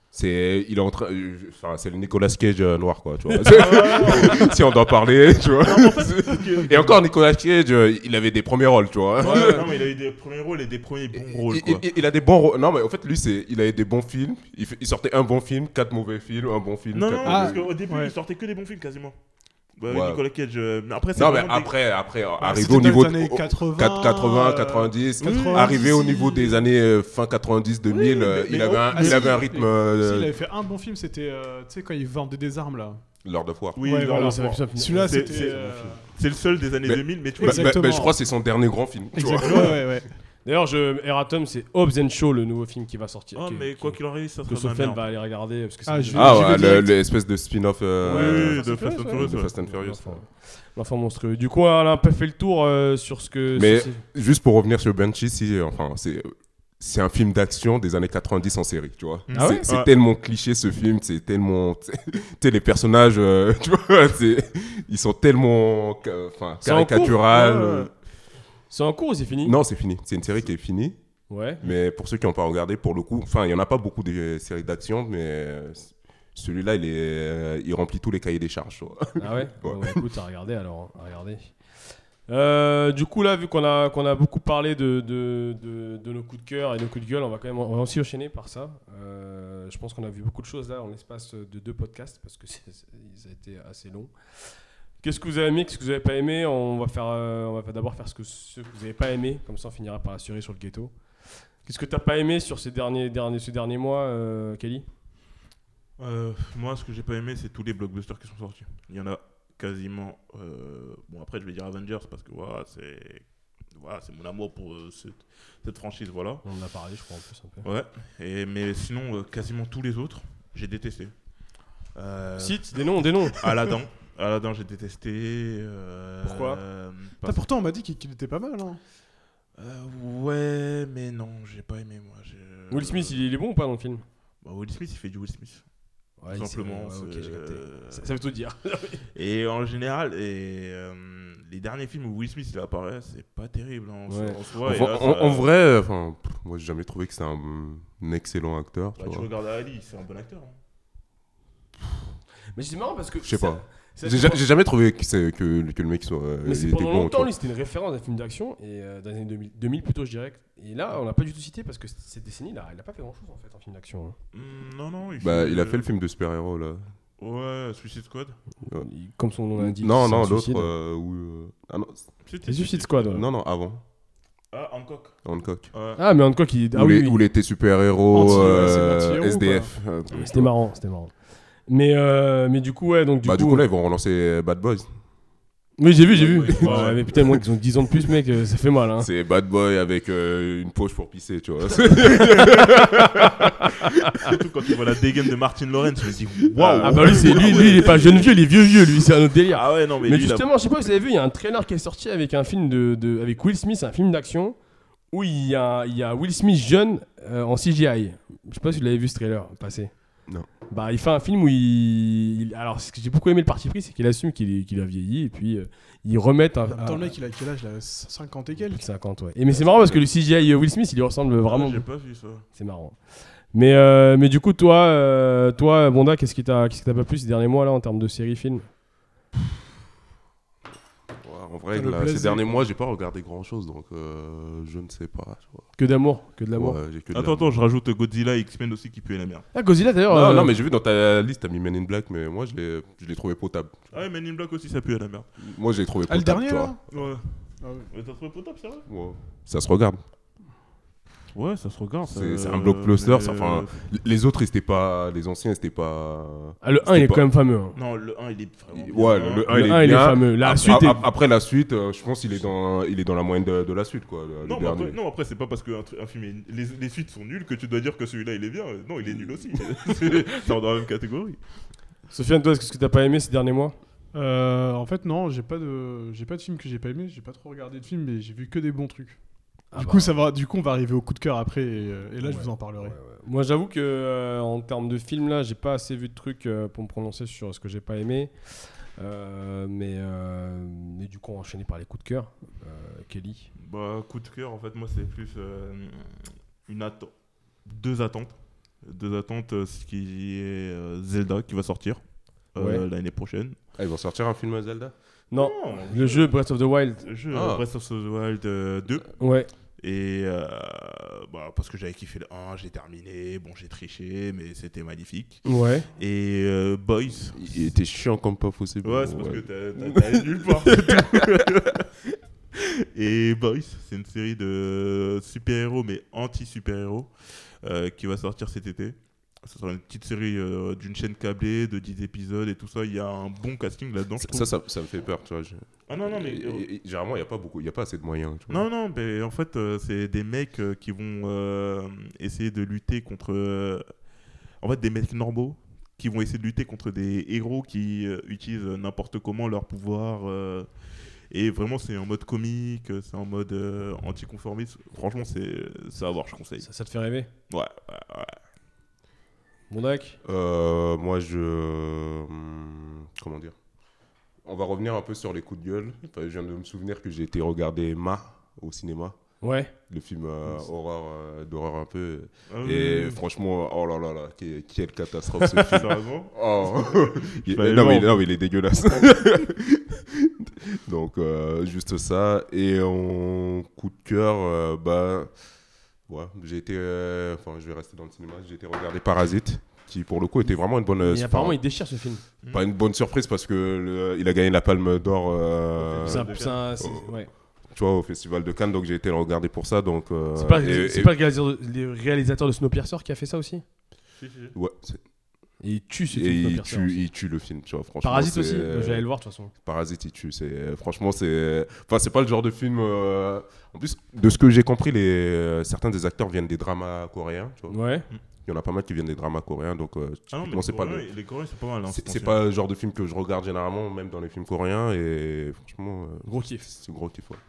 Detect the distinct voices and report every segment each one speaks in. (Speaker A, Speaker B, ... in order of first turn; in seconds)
Speaker A: 0.1-9.8, 11.1-17.7, 19.9-20.2, 21.1-30.3, 33.2-33.8, 36.8-39.9, 46.1-50.2, 53.5-67.9, 69.4-71.0, 71.6-80.0, 144.6-149.3, 153.2-157.3, 165.2-166.8, 169.5-172.1, 173.0-173.8, 175.2-175.7, 176.7-180.5, 183.2-184.9, 186.2-187.4, 189.0-193.7, 196.5-198.2, 231.2-235.7, 236.5-237.6, 240.1-243.8, 245.4-246.7, 248.9-250.0, 252.1-257.2, 258.7-265.0, 303.8-304.9, 307.3-307.6, 317.3-320.1, 334.2-338.7, 360.2-363.5, 364.4-369.2, 369.8-385.3, 386.1-391.6, 392.5-397.1, 397.7-401.1, 404.5-405.0, 406.1-417.8, 418.4-421.1, 421.9-427.4
Speaker B: 3.4-4.5, 5.5-7.0, 9.2-11.8, 16.9-19.1, 19.8-21.7, 25.2-25.8, 27.9-29.4, 33.8-38.1, 43.3-45.0, 48.0-49.5, 59.3-59.9, 106.0-116.4, 117.6-121.1, 121.8-127.4, 129.6-133.2, 134.4-135.6, 136.3-138.1, 139.1-145.5, 149.0-150.6, 164.3-165.8, 167.2-168.4, 172.2-173.0, 174.5-175.2, 175.7-176.0, 186.2-187.0, 194.2-198.3, 199.5-200.5, 221.4-222.4, 237.1-239.5, 243.9-245.3, 246.9-247.3, 247.9-248.8, 251.3-253.8, 257.8-259.7, 260.4-261.0, 264.4-271.4, 293.6-297.1, 297.6-303.6, 305.3-306.3, 307.0-309.2, 309.8-317.7, 318.8-321.9, 322.5-334.5, 335.9-336.6, 338.5-343.8, 344.6-350.7, 351.3-356.7, 357.5-358.4, 372.5-373.2, 375.4-378.1, 395.8-396.7, 404.2-404.5, 420.3-422.4
Speaker C: 9.2-9.7, 34.0-35.9, 40.4-46.8, 48.0-54.0, 59.3-59.7, 66.6-67.8, 68.7-69.5, 71.3-71.6, 79.2-104.8, 116.4-117.7, 122.4-123.4, 126.2-126.6, 132.7-134.0, 136.2-139.0, 144.1-144.4, 152.5-154.4, 156.4-164.2, 168.7-170.7, 172.4-173.2, 176.0-177.2, 178.2-178.7, 180.1-181.1, 181.7-183.6, 185.8-189.1, 196.8-204.6, 205.1-217.1, 218.7-221.9, 222.5-228.7, 235.8-236.8, 239.5-240.5, 256.6-257.8, 259.5-261.0, 272.1-273.7, 279.7-280.1, 282.2-293.5, 302.6-302.8, 305.3-307.1, 309.2-309.5, 315.4-315.9, 356.6-357.3, 359.7-360.2, 369.4-369.7, 391.0-392.2, 396.0-397.3, 400.3-403.6, 405.6-407.1, 408.0-409.5, 417.7-418.1, 426.2-426.7
Speaker D: 17.2-18.1, 22.4-26.7, 28.9-33.0, 33.8-36.0, 37.4-38.2, 39.1-40.1, 45.9-46.9, 127.2-128.8, 178.1-179.7, 216.7-218.8, 231.7-232.6, 246.1-247.0, 247.6-247.9, 274.1-279.2, 279.7-283.0